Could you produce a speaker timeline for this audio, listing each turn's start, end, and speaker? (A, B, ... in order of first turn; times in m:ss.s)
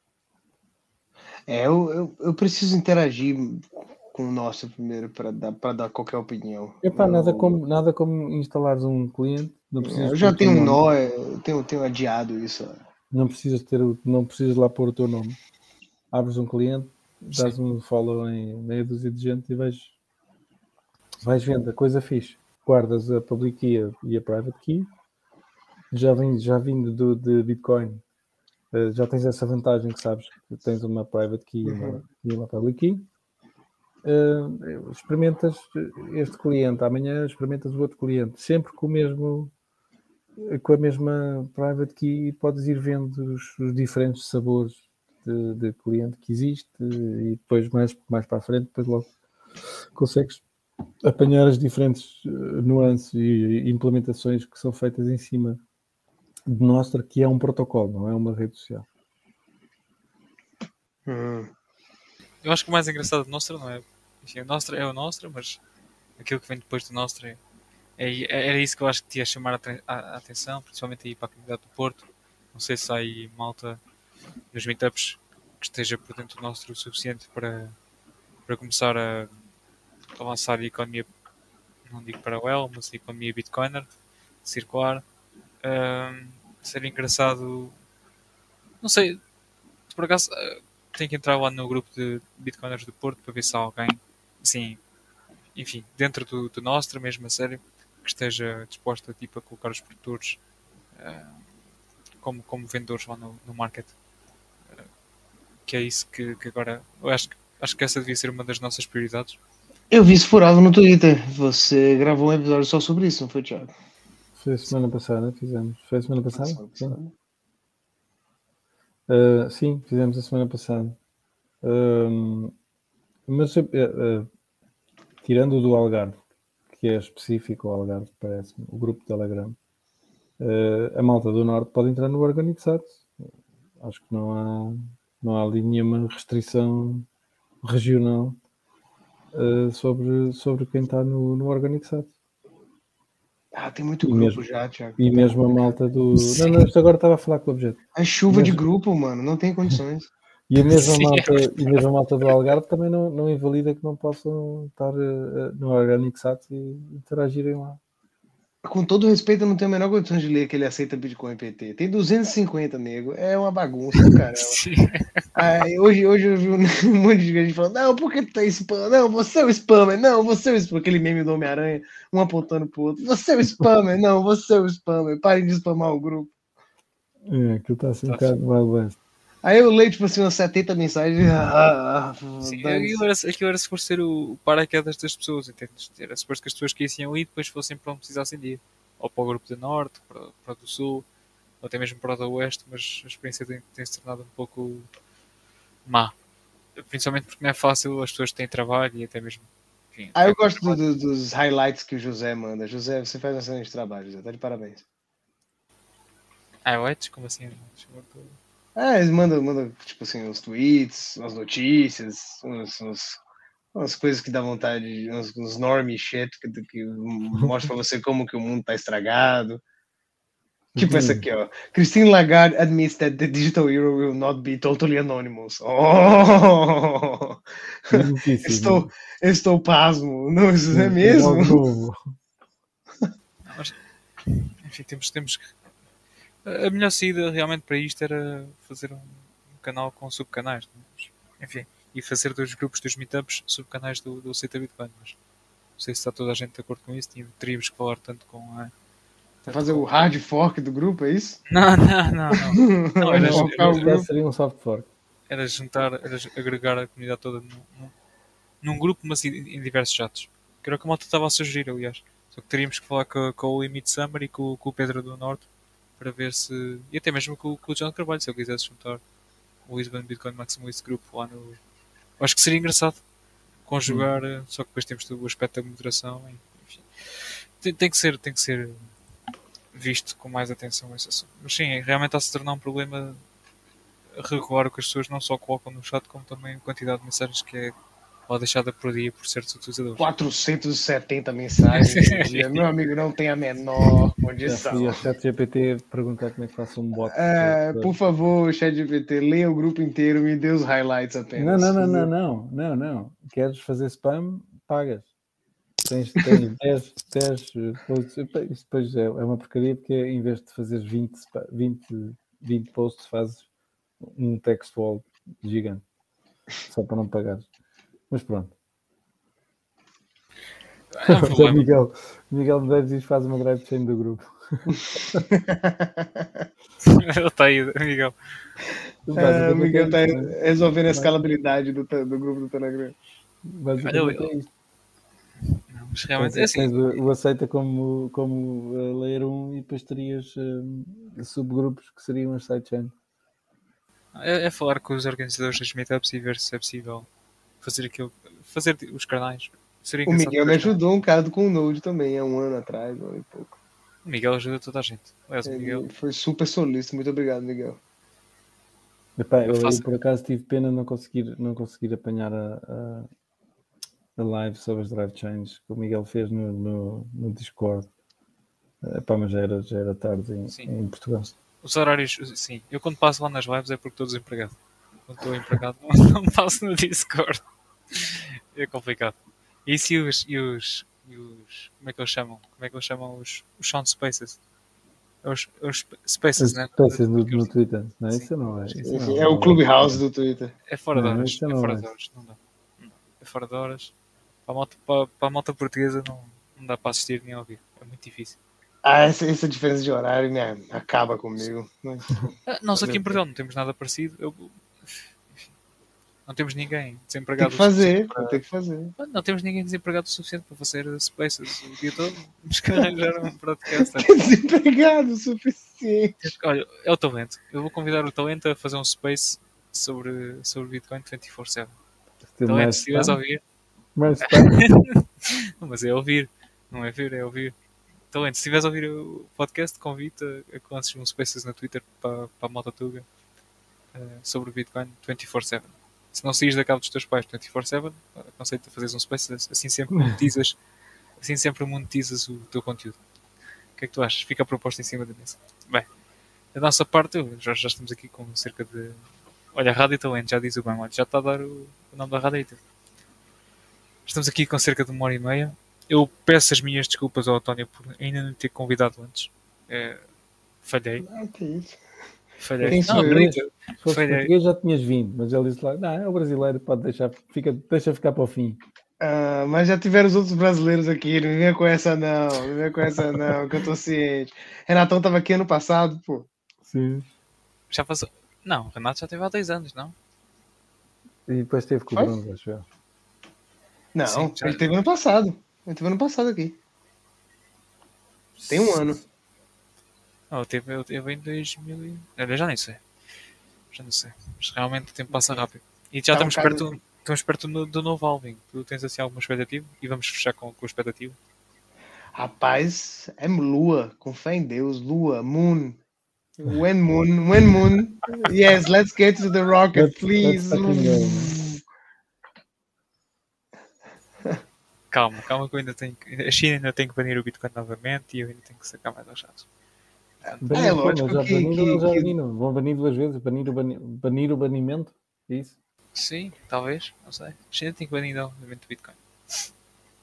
0:01.5-0:07.5 A
0:06.8-0:10.8 B
0:09.8-0:12.8 A
0:13.1-0:15.4 B
0:16.1-0:19.9 B
0:21.2-0:24.9 B
0:25.9-0:28.0 B
0:28.7-0:33.1 B
0:31.6-0:32.0 A
0:34.0-0:39.5 B
0:40.4-0:49.1 B
0:49.9-0:50.4 B
0:51.0-0:55.6 B
0:56.4-0:58.9 B
1:01.1-1:01.5 A
1:02.4-1:05.6 C
1:06.2-1:07.4 C
1:08.0-1:13.8 C
1:14.5-1:17.7 C
1:18.5-1:19.3 C
1:20.2-1:21.1 C
1:21.8-1:23.9 C
1:24.4-1:25.0 C
1:25.6-1:27.7 C
1:28.8-1:29.2 C
1:29.9-1:34.8 C
1:35.5-1:40.4 C
1:40.9-1:41.4 C
1:42.2-1:43.9 C
1:45.6-1:49.4 C
1:49.9-1:53.7 A
1:54.4-1:57.0 B
1:56.3-1:57.1 A
1:59.1-2:01.0 B
2:01.6-2:02.5 B
2:03.3-2:04.3 B
2:05.2-2:06.2 B
2:06.7-2:09.6 B
2:10.4-2:13.3 B
2:13.8-2:17.1 B
2:17.6-2:18.4 B
2:19.3-2:22.1 B
2:23.5-2:25.0 A
2:24.0-2:24.4 B
2:25.0-2:28.6 B
2:26.2-2:26.7 C
2:28.0-2:30.1 A
2:30.5-2:37.8 B
2:30.6-2:31.7 C
2:38.6-2:44.6 A
2:44.0-2:45.2 C
2:45.3-2:56.3 A
2:57.2-2:59.0 B
2:58.1-2:58.3 C
2:59.4-3:03.0 A
3:02.4-3:11.0 C
3:11.6-3:14.9 C
3:15.8-3:16.1 C
3:16.8-3:20.8 C
3:20.1-3:24.8 A
3:26.6-3:28.4 C
3:28.8-3:33.2 A
3:33.7-3:39.6 A
3:40.7-3:41.2 B
3:40.8-3:51.6 A
3:47.9-3:48.9 B
3:50.7-3:52.0 B
3:53.4-3:55.5 C
3:56.4-4:05.2 C
4:05.8-4:08.7 C
4:09.4-4:09.9 C
4:09.4-4:11.4 A
4:11.5-4:14.0 C
4:12.3-4:14.0 A
4:13.2-4:14.9 B
4:15.3-4:17.9 C
4:18.6-4:25.5 C
4:26.0-4:29.0 C
4:29.7-4:31.6 C
4:32.2-4:33.0 C
4:33.6-4:38.9 C
4:39.7-4:43.2 C
4:44.2-4:47.7 C
4:48.3-4:50.1 C
4:50.0-4:55.0 A
4:51.6-4:52.6 C
4:54.4-4:58.0 B
4:57.0-5:02.1 A
5:01.4-5:05.1 B
5:05.8-5:13.5 B
5:14.0-5:15.8 B
5:16.7-5:17.5 B
5:18.1-5:18.5 B
5:20.9-5:21.6 C
5:21.1-5:25.2 B
5:25.3-5:26.4 A
5:26.8-5:28.1 C
5:29.0-5:30.4 B
5:29.1-5:33.0 A
5:33.4-5:34.5 B
5:33.8-5:34.3 C
5:35.7-5:36.7 C
5:36.2-5:42.9 B
5:44.1-5:47.1 C
5:47.6-5:50.8 C
5:50.1-5:53.6 A
5:54.0-5:55.9 C
5:55.4-5:57.8 A
5:59.2-6:03.1 B
5:59.4-5:59.8 C
6:04.2-6:07.9 B
6:08.8-6:11.3 B
6:11.6-6:14.6 C
6:15.1-6:24.4 C
6:25.2-6:27.5 C
6:26.4-6:29.6 B
6:28.1-6:29.3 C
6:28.8-6:30.5 A
6:30.7-6:33.9 C
6:30.9-6:31.9 B
6:34.4-6:38.4 C
6:38.8-6:43.2 A
6:42.5-6:45.5 C
6:46.2-6:48.4 C
6:47.4-6:48.9 A
6:49.0-6:54.2 C
6:53.8-6:56.3 A
6:56.2-7:01.7 C
7:02.3-7:03.2 B
7:02.4-7:03.4 C
7:04.0-7:04.6 B
7:04.3-7:07.5 C
7:08.1-7:13.0 C
7:13.9-7:20.6 C
7:21.2-7:23.0 C
7:23.8-7:25.9 C
7:26.5-7:32.6 C
7:34.0-7:40.0 C
7:40.6-7:41.0 C
7:41.0-7:41.8 A
7:42.4-7:44.3 C
7:42.6-7:43.4 A
7:42.6-7:48.6 B
7:49.0-7:56.3 A
7:56.6-7:57.1 B
7:57.7-7:59.9 C
8:01.3-8:02.6 B
8:03.9-8:06.6 A
8:04.0-8:04.7 C
8:08.4-8:08.8 B
8:08.5-8:09.0 A
8:10.3-8:12.8 C
8:13.7-8:21.2 C
8:16.1-8:16.7 A
8:22.2-8:25.8 A
8:26.4-8:31.6 A
8:29.7-8:31.3 B
8:34.9-8:39.5 C
8:40.2-8:40.6 C
8:40.3-8:42.1 A
8:40.4-8:45.6 B
8:45.9-8:49.4 C